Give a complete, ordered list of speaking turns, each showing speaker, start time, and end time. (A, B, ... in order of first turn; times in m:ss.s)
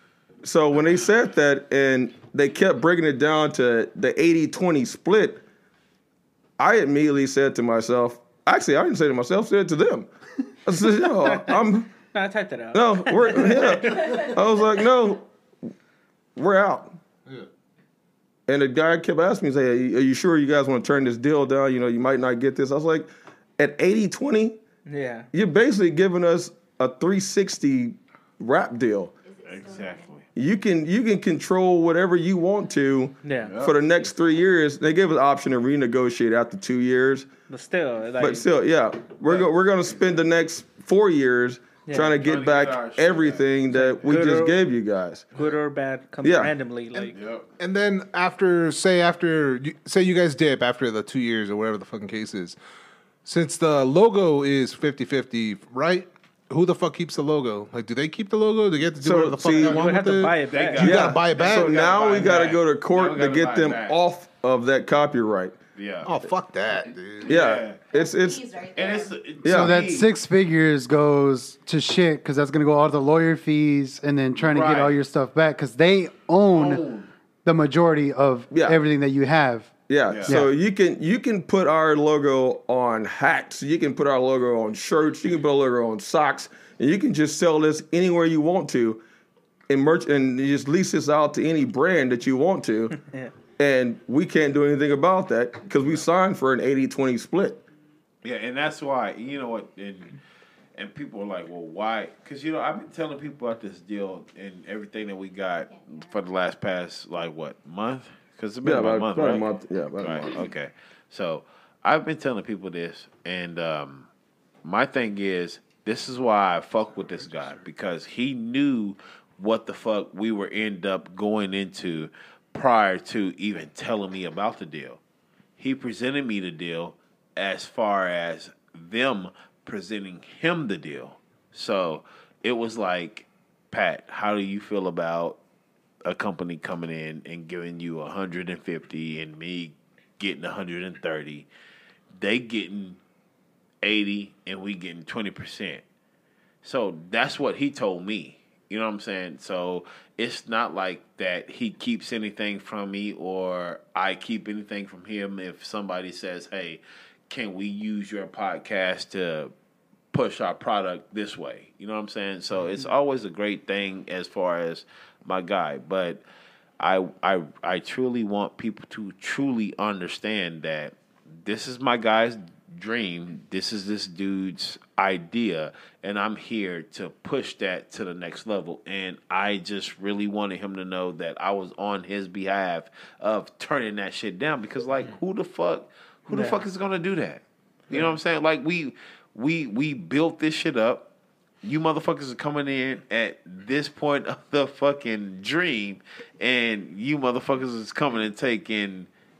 0:00.4-0:05.4 A
0:06.6-0:10.1 A
0:10.6-0:11.9 A
0:11.2-0:11.5 B
0:12.1-0:14.3 B
0:12.7-0:15.2 A
0:16.4-0:16.9 A
0:18.5-0:24.6 A
0:24.9-0:25.3 B
0:25.3-0:29.1 A
0:29.2-0:30.1 C
0:29.4-0:30.2 D
0:30.3-0:37.3 A
0:33.2-0:33.5 B
0:33.4-0:33.7 D
0:37.5-0:38.4 B
0:38.2-0:45.2 A
0:41.9-0:42.1 B
0:42.1-0:43.4 D
0:43.7-0:44.6 B
0:45.4-0:47.1 B
0:46.2-0:46.5 A
0:47.1-0:47.4 D
0:47.6-0:52.6 E
0:53.2-1:01.7 E
0:59.0-0:59.8 A
0:59.5-1:00.8 B
1:00.4-1:04.0 D
1:00.8-1:05.5 A
1:05.8-1:06.1 D
1:06.0-1:07.3 E
1:07.2-1:07.8 D
1:07.3-1:08.4 A
1:07.8-1:09.3 C
1:08.7-1:10.1 D
1:09.4-1:09.8 A
1:09.5-1:16.8 F
1:14.4-1:14.9 D
1:16.5-1:17.1 D
1:17.4-1:19.7 F
1:18.5-1:18.8 A
1:19.9-1:29.0 A
1:20.1-1:20.3 D
1:29.7-1:33.0 A
1:33.6-1:37.6 A
1:38.2-1:40.1 D
1:40.8-1:49.4 D
1:45.7-1:46.1 C
1:48.6-1:50.5 A
1:50.0-1:54.1 D
1:54.6-2:05.0 D
2:05.6-2:15.4 D
2:16.0-2:21.5 D
2:22.2-2:23.0 D
2:23.8-2:25.8 D
2:26.6-2:39.5 D
2:40.1-2:46.2 D
2:46.8-3:11.1 D
3:06.3-3:06.6 B
3:11.6-3:19.1 D